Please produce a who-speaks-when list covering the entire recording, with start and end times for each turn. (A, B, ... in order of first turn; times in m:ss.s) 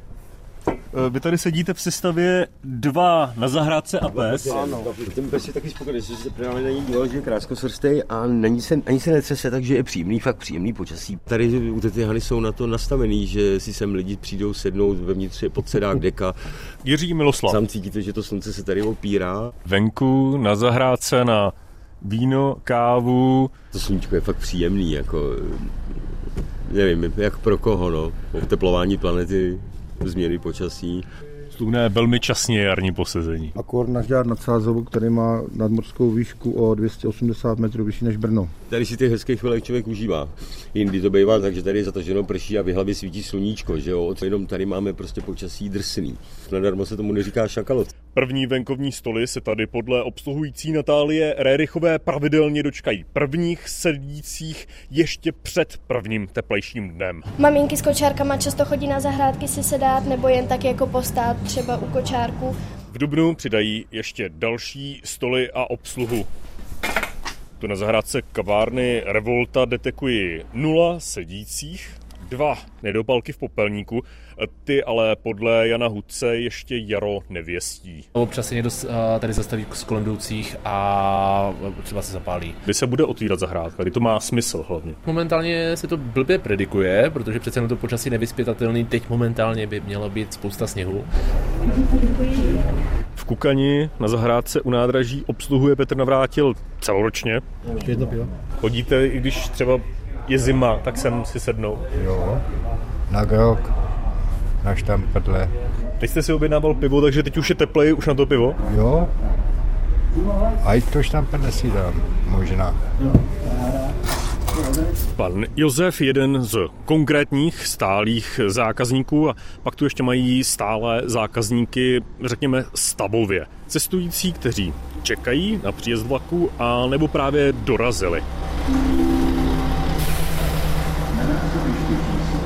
0:00.9-0:04.5 A
0:04.0-0:16.4 B
0:04.5-0:04.9 C
0:16.8-0:17.6 A
0:17.5-0:19.5 B
0:19.6-0:23.5 A
0:23.7-0:25.8 B
0:26.7-0:31.0 B
0:31.5-0:33.5 A
0:33.6-0:38.5 C
0:38.7-0:47.9 B
0:48.1-0:57.2 A
0:57.4-1:02.6 D
1:02.9-1:06.3 A
1:07.6-1:18.1 A
1:18.2-1:22.6 E
1:22.6-1:25.0 A
1:25.0-1:31.1 E
1:33.2-1:37.4 A
1:37.8-1:38.3 C
1:38.6-1:41.8 A
1:41.9-1:42.4 F
1:43.1-1:43.7 F
1:44.6-1:45.5 F
1:46.0-1:48.6 A
1:48.6-1:49.1 F
1:50.6-1:52.8 F
1:55.1-2:08.2 A
2:11.7-2:12.1 B